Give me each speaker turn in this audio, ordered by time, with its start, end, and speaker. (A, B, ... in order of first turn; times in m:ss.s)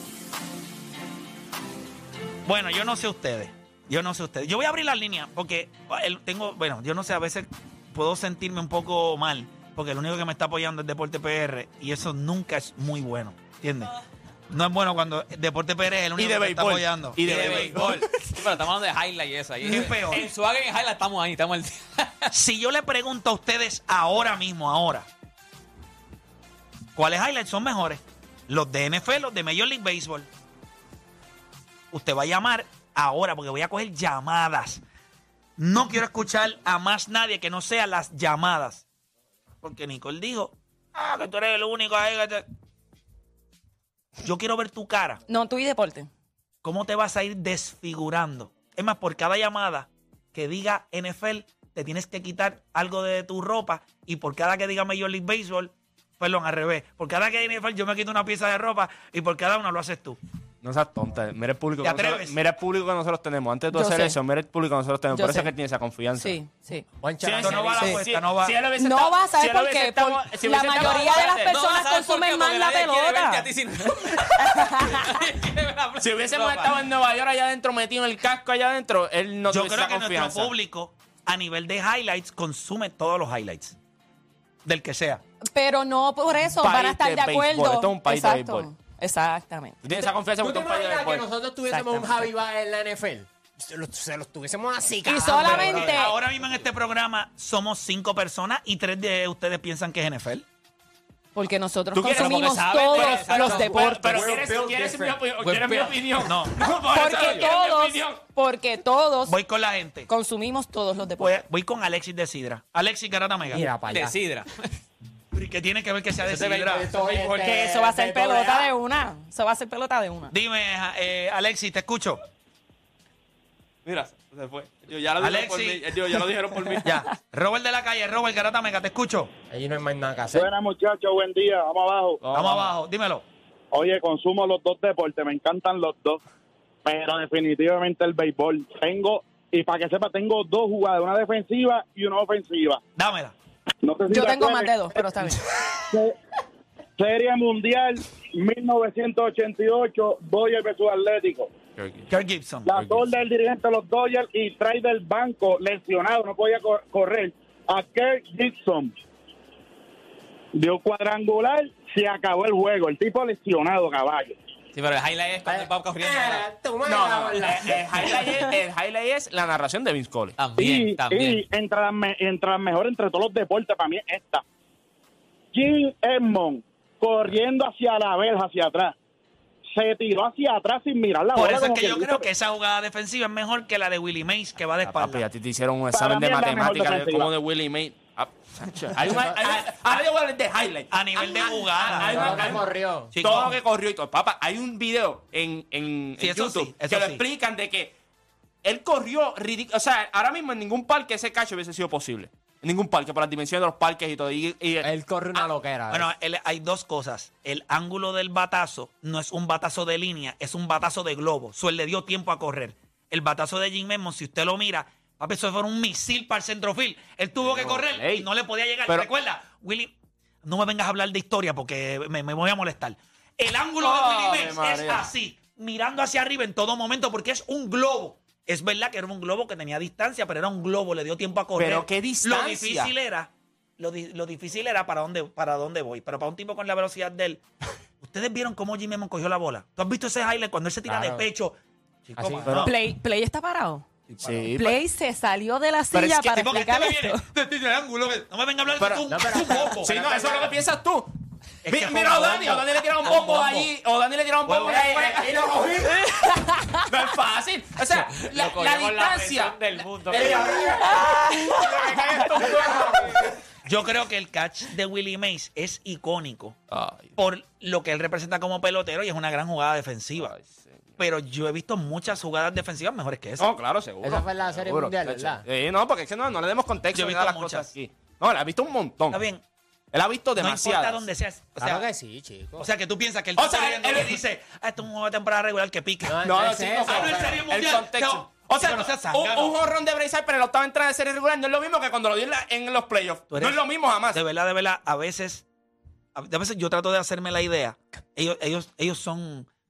0:02.5-0:13.9 A
0:14.5-0:18.0 A
0:16.2-0:18.4 B
0:17.2-0:22.3 C
0:19.6-0:20.3 A
0:22.3-0:25.1 A
0:27.0-0:30.3 A
0:31.9-0:34.8 A
0:35.6-0:38.9 A
0:39.6-0:42.4 A
0:44.2-0:45.2 A
0:45.3-0:46.1 D
0:46.6-1:00.2 A
1:00.6-1:06.4 B
1:01.8-1:02.4 A
1:03.7-1:04.2 D
1:05.1-1:05.5 D
1:06.1-1:06.8 D
1:07.0-1:08.0 E
1:07.2-1:11.5 B
1:07.4-1:08.6 A
1:08.8-1:13.5 D
1:10.8-1:16.8 C
1:14.4-1:15.2 D
1:16.0-1:20.6 B
1:19.5-1:23.8 A
1:24.6-1:25.2 A
1:25.5-1:30.1 D
1:26.6-1:28.7 B
1:29.8-1:31.2 B
1:30.4-1:36.1 E
1:31.7-1:32.3 D
1:35.0-1:36.2 D
1:35.3-1:40.4 A
1:41.3-1:44.2 D
1:41.9-1:48.2 B
1:42.2-1:43.8 C
1:43.6-1:45.2 E
1:45.4-1:46.1 C
1:46.2-1:46.7 A
1:46.9-1:49.4 D
1:49.2-1:50.1 A
1:50.1-1:51.4 D
1:51.2-1:53.7 A
1:53.5-1:54.2 E
1:53.9-1:54.6 C
1:55.3-1:56.9 A
1:56.3-1:56.7 B
1:56.3-1:56.8 C
1:56.5-1:58.7 E
1:57.3-2:00.3 D
2:00.3-2:02.2 A
2:03.8-2:07.0 B
2:05.2-2:06.2 A
2:06.8-2:09.3 A
2:09.5-2:10.5 E
2:10.3-2:12.2 F
2:12.2-2:12.8 B
2:12.3-2:13.2 A
2:13.7-2:16.2 F
2:16.8-2:22.8 F
2:23.0-2:23.4 A
2:23.8-2:25.1 F
2:24.1-2:25.4 D
2:25.9-2:26.1 F
2:27.0-2:31.5 F
2:31.8-2:32.1 B
2:32.1-2:32.7 A
2:32.6-2:38.9 F
2:32.7-2:33.1 B
2:40.6-2:44.4 F
2:44.7-2:46.5 C
2:45.4-2:48.4 E
2:46.8-2:50.4 B
2:50.4-2:51.4 C
2:50.6-2:54.4 F
2:55.5-2:58.9 F
2:59.8-3:02.3 F
3:01.4-3:05.3 A
3:04.8-3:17.9 B
3:05.9-3:07.3 F
3:09.1-3:09.6 E
3:10.9-3:12.6 A
3:11.8-3:13.1 E
3:13.1-3:13.6 A
3:16.2-3:17.2 A
3:18.6-3:24.9 B
3:24.8-3:26.1 E
3:25.9-3:57.4 A
3:37.4-3:38.3 B
3:43.8-3:45.1 B
3:51.6-3:52.9 B
3:58.0-4:02.8 A
4:00.9-4:01.2 E
4:02.2-4:02.5 E
4:02.2-4:02.7 B
4:02.6-4:03.8 D
4:04.1-4:04.5 A
4:04.2-4:04.8 B
4:04.5-4:07.2 D
4:05.9-4:07.1 B
4:06.4-4:07.1 A
4:08.2-4:09.9 A
4:08.8-4:11.1 B
4:09.1-4:10.6 E
4:11.6-4:13.7 A
4:11.7-4:15.7 B
4:14.4-4:14.8 A
4:14.6-4:16.0 E
4:16.7-4:19.6 B
4:18.2-4:20.8 C
4:20.1-4:21.7 E
4:21.2-4:23.0 B
4:22.2-4:23.3 E
4:23.6-4:26.6 A
4:26.7-4:27.2 B
4:27.2-4:30.3 A
4:30.2-4:31.0 B
4:31.0-4:33.5 A
4:33.4-4:39.2 B
4:34.0-4:35.4 E
4:36.9-4:37.7 A
4:39.1-4:39.4 A
4:39.9-4:41.1 B
4:40.4-4:41.8 A
4:41.6-4:42.6 E
4:42.6-4:46.2 A
4:43.4-4:44.2 B
4:46.0-4:47.5 E
4:46.2-4:54.2 B
4:46.8-4:49.6 A
4:53.3-4:55.4 A
4:56.1-4:59.5 A